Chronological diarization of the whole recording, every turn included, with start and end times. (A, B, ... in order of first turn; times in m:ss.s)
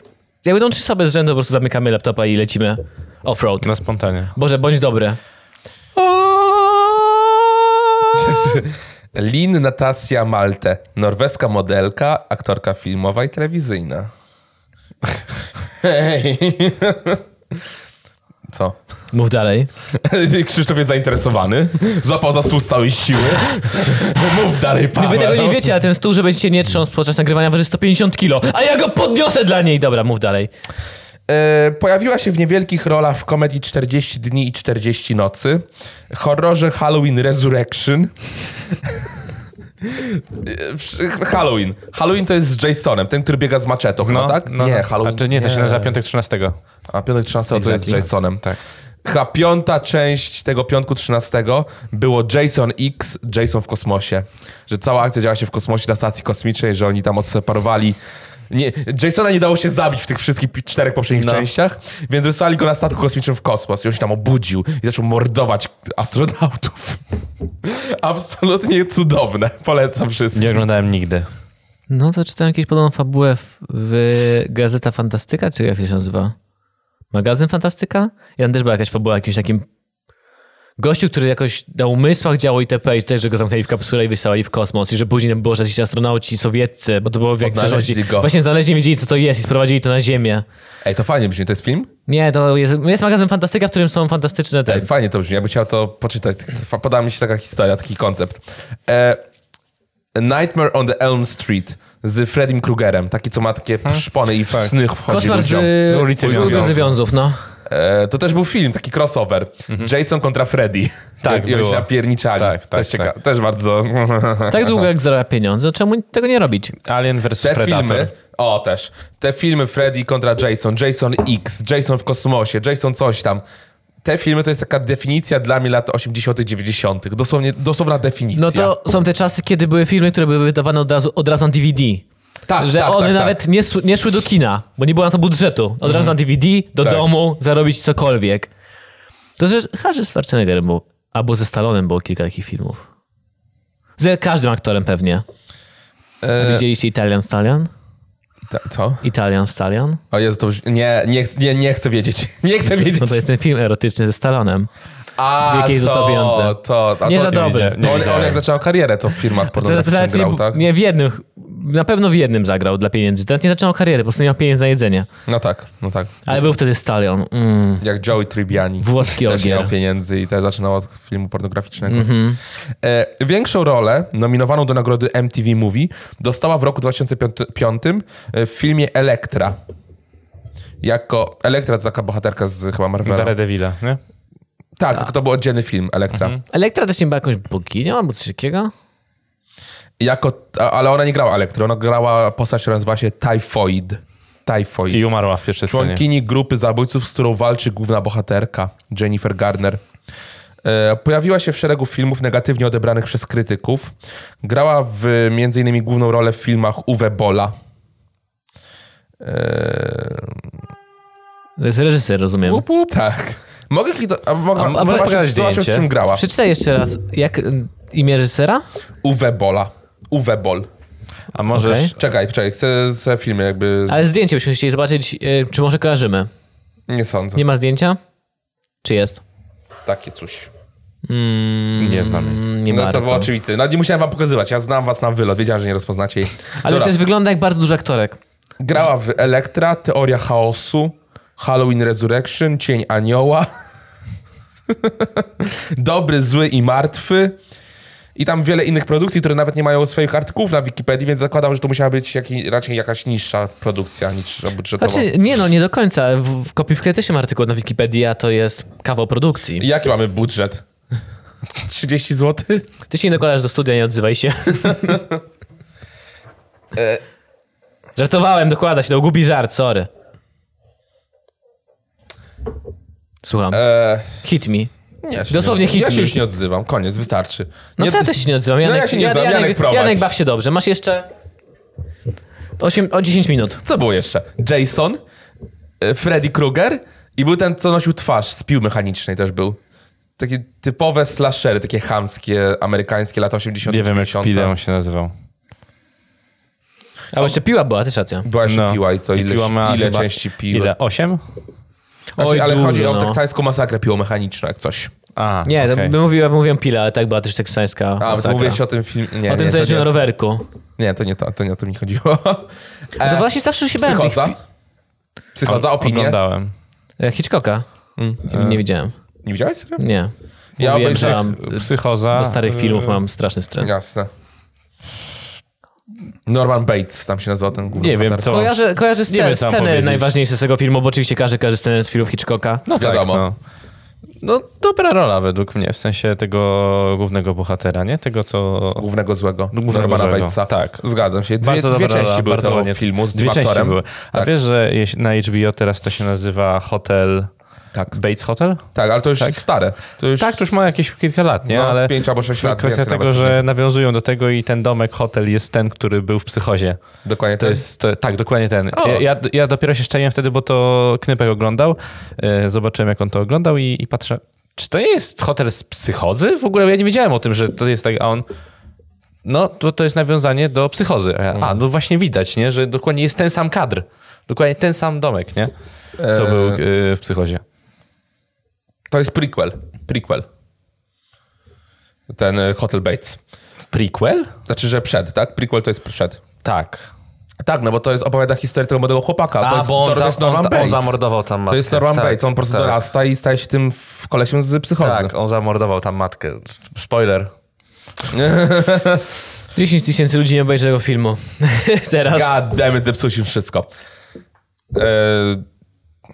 0:00.4-0:03.7 A
0:03.6-0:04.3 B
0:04.3-0:05.2 A
0:06.0-0:07.0 A
0:08.1-0:14.1 C
0:15.8-0:17.2 C
0:18.5-0:18.8 C
0:19.1-0:19.7 A
0:19.9-0:25.7 C
0:25.0-0:30.5 A
0:31.3-0:38.2 C
0:38.8-0:39.1 C
0:39.8-0:45.9 C
0:44.0-0:46.6 B
0:46.9-0:48.5 C
0:47.5-0:48.6 B
0:49.0-0:58.0 C
0:58.5-1:07.0 C
1:01.1-1:01.5 B
1:07.6-1:10.6 C
1:10.3-1:11.3 B
1:11.9-1:16.3 A
1:17.1-1:19.6 A
1:20.8-1:30.4 A
1:27.4-1:28.3 C
1:30.8-1:31.9 C
1:32.1-1:34.9 A
1:34.7-1:39.2 C
1:40.1-1:46.9 C
1:43.8-1:44.7 B
1:45.1-1:47.4 A
1:45.6-1:46.9 B
1:47.6-1:54.8 C
1:51.2-1:53.1 B
1:54.5-1:56.7 A
1:56.8-1:58.1 B
1:57.4-2:03.4 C
2:04.0-2:08.7 C
2:08.4-2:12.0 A
2:12.5-2:13.4 C
2:12.6-2:18.5 A
2:19.4-2:22.8 A
2:24.0-2:25.2 A
2:26.2-2:26.6 C
2:26.4-2:27.7 A
2:28.5-2:29.0 C
2:29.0-2:30.0 A
2:30.1-2:33.2 C
2:32.8-2:34.7 A
2:35.2-2:40.6 C
2:35.4-2:38.1 A
2:37.2-2:38.4 B
2:39.5-2:45.1 A
2:45.3-2:46.4 C
2:46.2-2:47.8 A
2:47.8-2:52.2 C
2:48.8-2:49.7 A
2:51.9-2:52.4 A
2:52.8-2:59.6 C
3:00.8-3:03.3 C
3:03.0-3:04.0 B
3:04.8-3:06.4 C
3:06.1-3:06.4 B
3:06.5-3:08.7 A
3:10.0-3:15.0 C
3:14.9-3:16.0 B
3:15.6-3:19.8 C
3:20.6-3:27.5 C
3:29.2-3:30.4 C
3:31.6-3:32.6 A
3:32.4-3:36.2 C
3:34.6-3:35.9 B
3:34.7-3:35.1 A
3:36.1-3:38.6 A
3:39.0-3:40.7 C
3:41.3-3:41.9 B
3:41.5-3:41.9 A
3:42.0-3:44.0 C
3:43.9-3:46.3 A
3:46.9-3:47.4 C
3:47.3-3:48.0 A
3:48.8-3:49.2 A
3:49.8-3:50.5 C
3:51.0-3:53.3 A
3:51.8-3:52.4 B
3:52.7-3:57.0 C
3:56.6-3:58.2 A
3:58.6-4:03.5 C
4:04.8-4:07.4 C
4:08.2-4:15.1 C
4:14.8-4:19.6 A
4:19.6-4:20.6 C
4:21.6-4:22.6 C
4:22.9-4:25.0 A
4:26.7-4:27.0 C
4:28.0-4:29.9 A
4:33.2-4:34.7 A
4:33.5-4:34.1 C
4:35.0-4:40.1 C
4:35.3-4:36.2 A
4:37.8-4:41.1 A
4:42.6-4:43.6 A
4:43.6-4:45.0 C
4:45.8-4:49.6 C
4:50.2-4:54.5 C
4:53.7-4:55.1 B
4:57.1-4:58.3 A
4:58.2-5:00.7 C
4:58.4-5:01.2 B
5:02.2-5:03.2 A
5:02.2-5:04.9 C
5:05.2-5:05.9 B
5:05.4-5:08.6 A
5:08.0-5:09.9 C
5:09.3-5:10.4 A
5:10.8-5:13.3 C
5:13.0-5:14.3 A
5:13.8-5:14.4 C
5:15.3-5:16.2 C
5:15.4-5:16.5 B
5:17.0-5:17.6 A
5:18.0-5:18.2 C
5:18.2-5:18.9 A
5:18.3-5:18.6 B
5:19.2-5:19.8 C
5:19.8-5:23.7 A
5:20.6-5:21.2 C
5:20.9-5:23.0 B
5:23.6-5:24.1 C
5:26.2-5:28.4 C
5:27.8-5:30.1 B
5:28.2-5:32.6 A
5:32.7-5:33.4 B
5:32.7-5:33.2 C
5:34.2-5:38.8 B
5:38.8-5:44.3 C
5:39.5-5:40.8 B
5:41.4-5:47.3 B
5:47.9-5:48.6 B
5:48.7-5:50.5 C
5:49.2-5:49.4 B
5:50.2-5:56.8 B
5:51.4-5:53.4 C
5:57.0-5:57.6 C
5:57.4-6:08.2 B
5:58.7-5:59.0 C
6:09.2-6:15.5 B
6:16.0-6:16.6 C
6:16.1-6:17.4 B
6:18.9-6:20.2 C
6:22.1-6:23.2 C
6:23.7-6:24.3 B
6:24.5-6:26.2 C
6:26.4-6:26.9 B
6:27.4-6:35.1 C
6:29.4-6:32.8 B
6:34.8-6:37.3 B
6:38.1-6:39.0 C
6:39.5-6:42.4 A
6:42.1-6:43.7 C
6:44.7-6:45.4 C